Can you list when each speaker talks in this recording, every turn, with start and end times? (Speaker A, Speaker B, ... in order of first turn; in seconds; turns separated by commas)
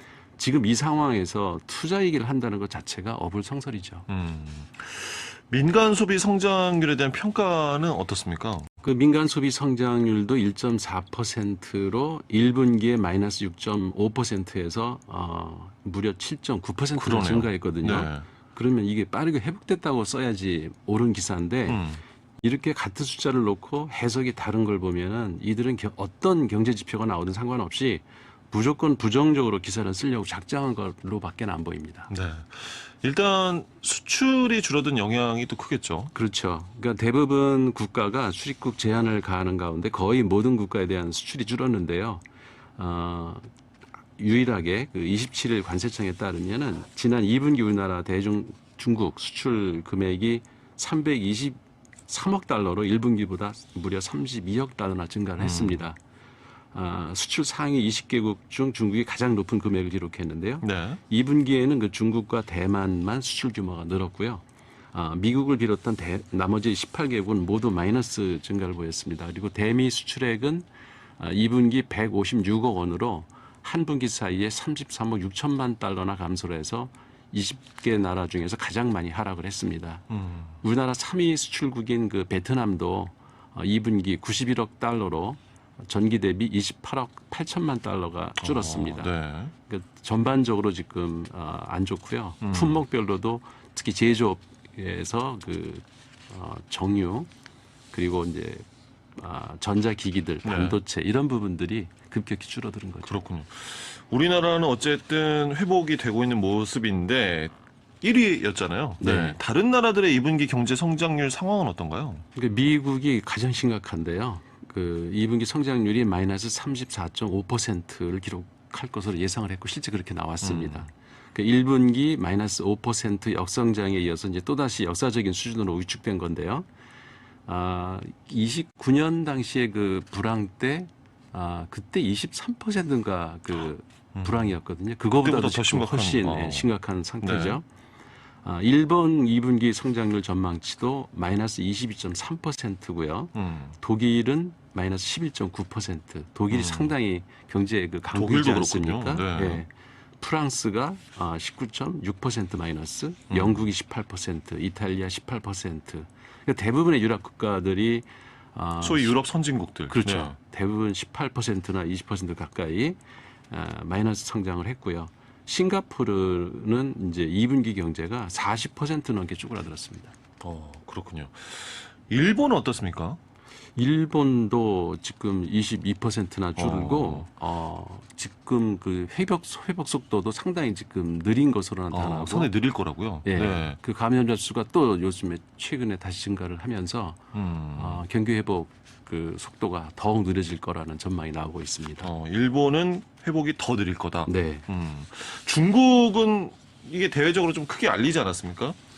Speaker A: 0.3-4.1, Speaker B: 4.1-8.7, Speaker A: 8.8-21.8, Speaker B: 17.0-18.2, Speaker B: 21.7-22.0, Speaker A: 22.4-32.1, Speaker B: 32.1-36.1, Speaker A: 36.1-42.2, Speaker A: 42.8-43.5, Speaker A: 44.2-56.0, Speaker B: 55.4-55.8, Speaker A: 56.7-70.7, Speaker B: 60.6-61.0, Speaker A: 71.2-80.0, Speaker B: 80.1-80.6, Speaker A: 80.6-97.3, Speaker B: 88.4-89.5, Speaker B: 92.4-92.8, Speaker A: 97.9-103.2, Speaker B: 100.4-100.8, Speaker B: 103.0-112.2, Speaker A: 109.0-109.4, Speaker A: 112.3-126.7, Speaker B: 120.4-120.9, Speaker A: 127.5-137.6, Speaker B: 134.1-134.5, Speaker B: 135.2-136.7, Speaker B: 137.2-137.6, Speaker A: 138.4-159.2, Speaker B: 143.3-143.8, Speaker B: 146.5-146.9, Speaker B: 148.1-149.6, Speaker B: 153.3-153.6, Speaker B: 158.8-160.3, Speaker A: 159.9-163.0, Speaker A: 163.5-170.2, Speaker B: 170.4-173.2, Speaker A: 173.8-182.5, Speaker B: 176.6-177.3, Speaker B: 181.9-183.8, Speaker A: 183.2-187.2, Speaker B: 187.3-188.0, Speaker A: 187.7-192.1, Speaker B: 192.0-198.8, Speaker A: 194.2-194.6